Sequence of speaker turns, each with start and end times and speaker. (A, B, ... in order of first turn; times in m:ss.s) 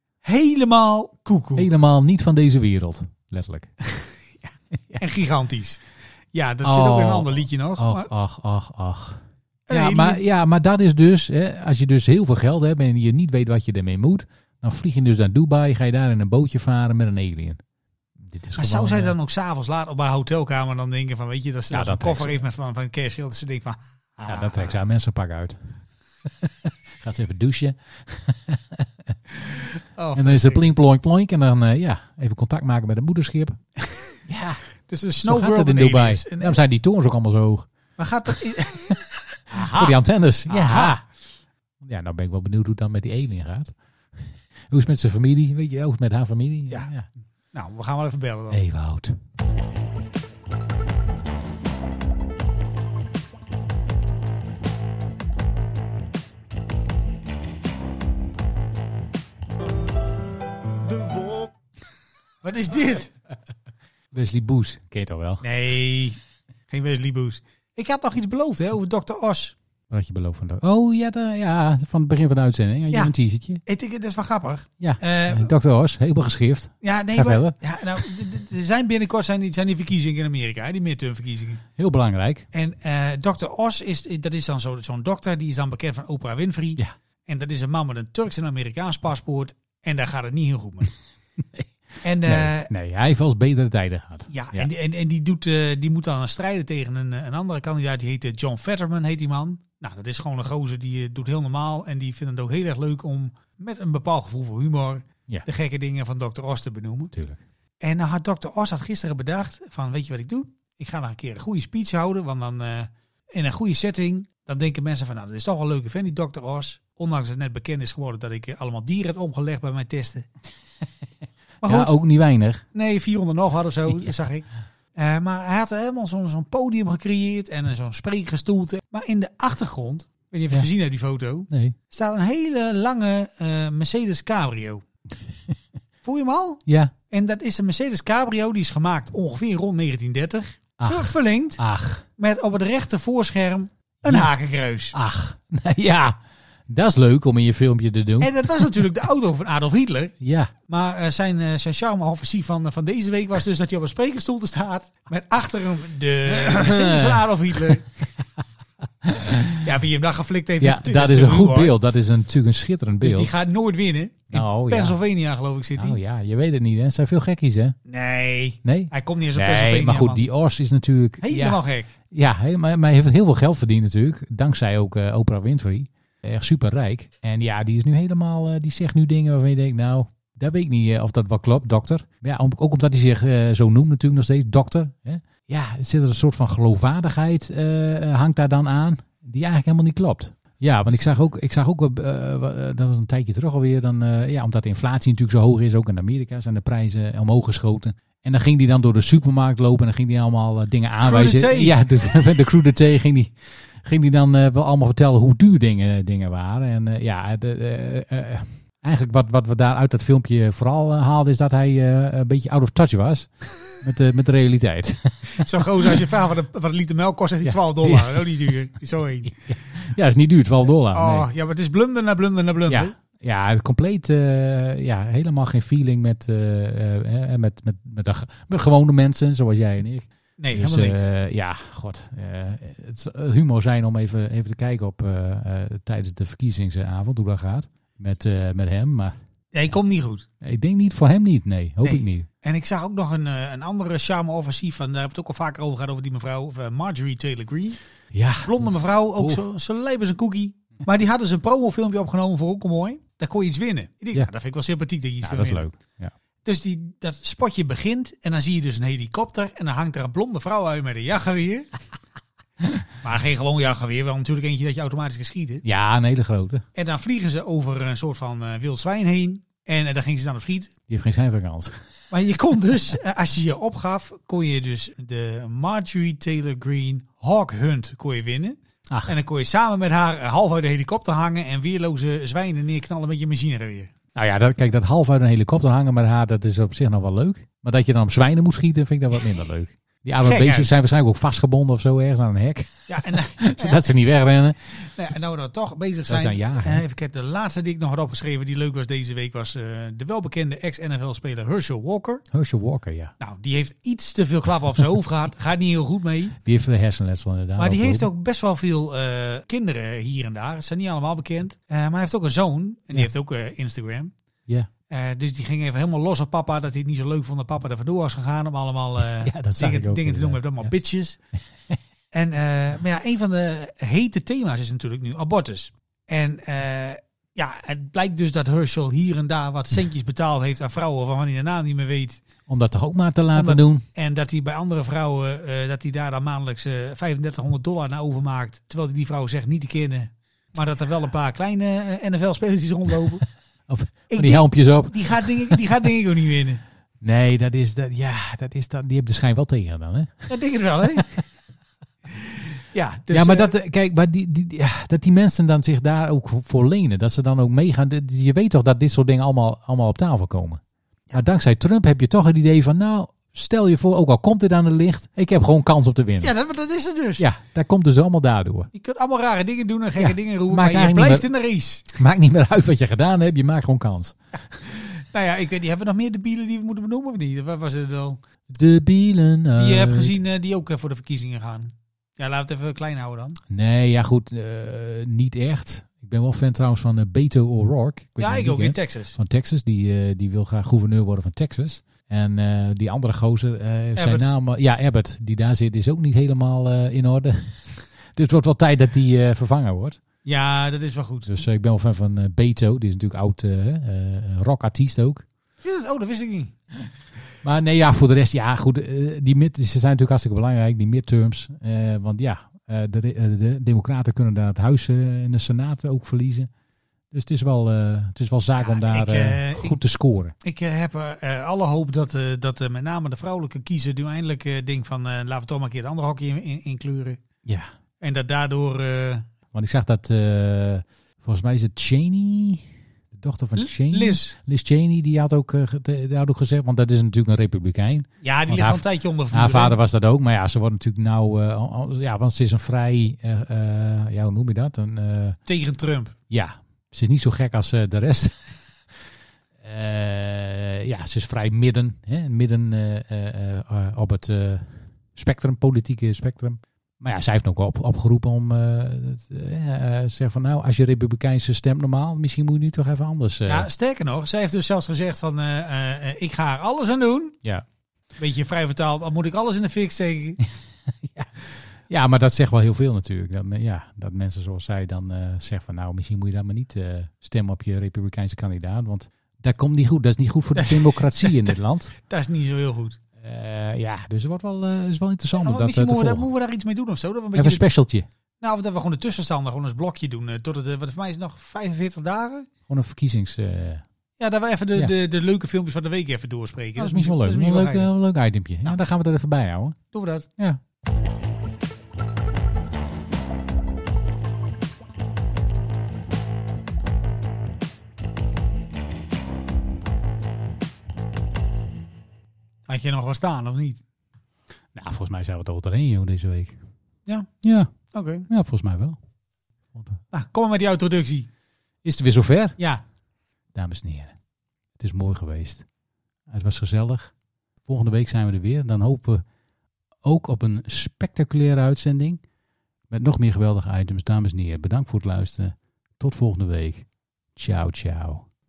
0:00.2-0:01.7 A
0:01.6-0:03.7 B
0:03.9-0:04.5 A
0:05.0-0:05.8 A
0:06.3-0:08.1 A
0:06.6-0:17.6 B
0:09.7-0:10.2 A
0:18.2-0:19.1 B
0:18.6-0:24.7 A
0:21.7-0:22.4 B
0:24.3-0:25.6 B
0:26.4-0:29.1 B
0:29.4-0:30.6 A
0:30.1-0:33.6 B
0:34.2-0:34.6 B
0:34.9-0:36.6 A
0:35.2-0:37.7 B
0:38.0-0:41.0 A
0:39.6-0:41.0 B
0:41.8-0:43.7 B
0:44.7-0:47.1 B
0:47.5-0:48.6 A
0:48.5-0:49.2 B
1:02.4-1:03.1 A
1:04.1-1:05.4 B
1:05.4-1:06.2 A
1:06.7-1:09.5 A
1:09.9-1:13.6 B
1:13.6-1:15.5 A
1:14.8-1:17.6 B
1:16.8-1:21.6 A
1:21.8-1:22.4 B
1:22.5-1:30.9 A
1:31.4-1:31.6 B
1:32.0-1:32.7 A
1:32.2-1:34.7 B
1:34.3-1:47.1 A
1:47.1-1:47.4 B
1:47.8-2:00.3 A
2:01.6-2:02.0 A
2:01.6-2:02.6 B
2:02.7-2:14.8 A
2:11.5-2:11.8 B
2:16.0-2:21.6 A
2:16.6-2:16.9 B
2:20.8-2:22.0 B
2:22.2-2:25.0 A
2:24.9-2:26.2 B
2:26.7-2:28.7 B
2:28.2-2:30.1 A
2:30.2-2:30.5 B
2:30.6-2:37.9 A
2:36.3-2:37.8 B
2:39.0-2:39.6 B
2:39.6-2:41.7 A
2:40.6-2:43.3 B
2:43.0-2:46.0 A
2:44.3-2:45.0 B
2:45.8-2:47.8 B
2:47.8-2:50.2 A
2:48.6-3:23.3 B
2:51.2-2:51.9 A
3:21.0-3:21.8 A
3:23.8-3:35.5 B
3:35.4-3:39.4 A
3:37.4-3:38.4 B
3:39.3-3:41.3 B
3:40.9-3:42.9 A
3:42.7-3:59.2 B
3:50.4-3:51.0 A
3:59.5-4:00.2 A
4:00.4-4:02.3 B
4:01.8-4:07.8 A
4:08.1-4:09.4 B
4:08.4-4:15.6 A
4:15.2-4:16.1 B
4:16.4-4:21.7 A
4:23.0-4:25.6 A
4:25.6-4:26.6 B
4:26.7-4:30.7 A
4:30.9-4:31.8 B
4:32.1-4:43.9 A
4:44.2-4:54.8 B
4:50.2-4:50.8 A
4:52.9-4:53.8 A
4:54.8-5:02.2 A
4:56.1-4:56.8 B
5:02.3-5:03.1 B
5:03.2-5:06.4 A
5:06.4-5:08.1 B
5:07.6-5:14.1 A
5:14.9-5:21.2 A
5:19.2-5:20.7 B
5:22.1-5:32.2 A
5:32.5-5:33.8 B
5:33.3-5:43.2 A
5:43.7-5:45.6 B
5:44.1-5:46.6 A
5:47.0-5:51.2 B
5:50.3-5:51.1 A
5:52.2-5:53.5 A
5:53.1-6:00.6 B
6:01.1-6:06.3 B
6:06.2-6:07.2 A
6:07.2-6:08.7 B
6:08.7-6:11.9 A
6:10.0-6:11.2 B
6:11.9-6:14.2 B
6:14.6-6:18.2 A
6:18.5-6:20.2 B
6:19.6-6:23.4 A
6:23.5-6:40.0 B
6:28.2-6:29.2 A
6:34.0-6:34.3 A
6:40.2-6:41.3 A
6:41.2-6:45.2 B
6:45.6-6:46.5 A
6:47.4-6:56.5 B
6:57.1-7:00.3 B
6:58.6-6:59.8 A
7:00.4-7:07.2 A
7:08.0-7:09.2 A
7:09.5-7:25.4 B
7:13.6-7:14.3 A
7:18.2-7:19.8 A
7:25.5-7:26.1 A
7:26.3-7:28.5 B
7:29.6-7:43.7 B
7:43.4-7:47.4 A
7:48.2-7:50.4 A
7:51.0-7:51.3 B
7:51.9-8:01.9 B
8:00.5-8:03.0 A
8:03.2-8:06.2 B
8:05.3-8:07.6 A
8:07.3-8:08.1 B
8:08.4-8:12.5 A
8:12.7-8:13.8 B
8:14.2-8:17.9 A
8:16.8-8:19.8 B
8:19.9-8:20.3 A
8:32.7-8:33.8 A
8:34.7-8:36.6 B
8:37.4-8:37.7 B
8:37.8-8:38.3 A
8:38.3-8:39.0 B
8:39.7-8:40.0 B
8:40.1-8:41.3 A
8:41.8-8:42.6 B
8:42.6-8:42.8 A
8:43.5-8:44.1 B
8:44.8-8:45.6 B
8:46.3-8:47.1 B
8:47.6-8:49.2 B
8:50.0-8:52.2 B
8:52.9-8:58.2 B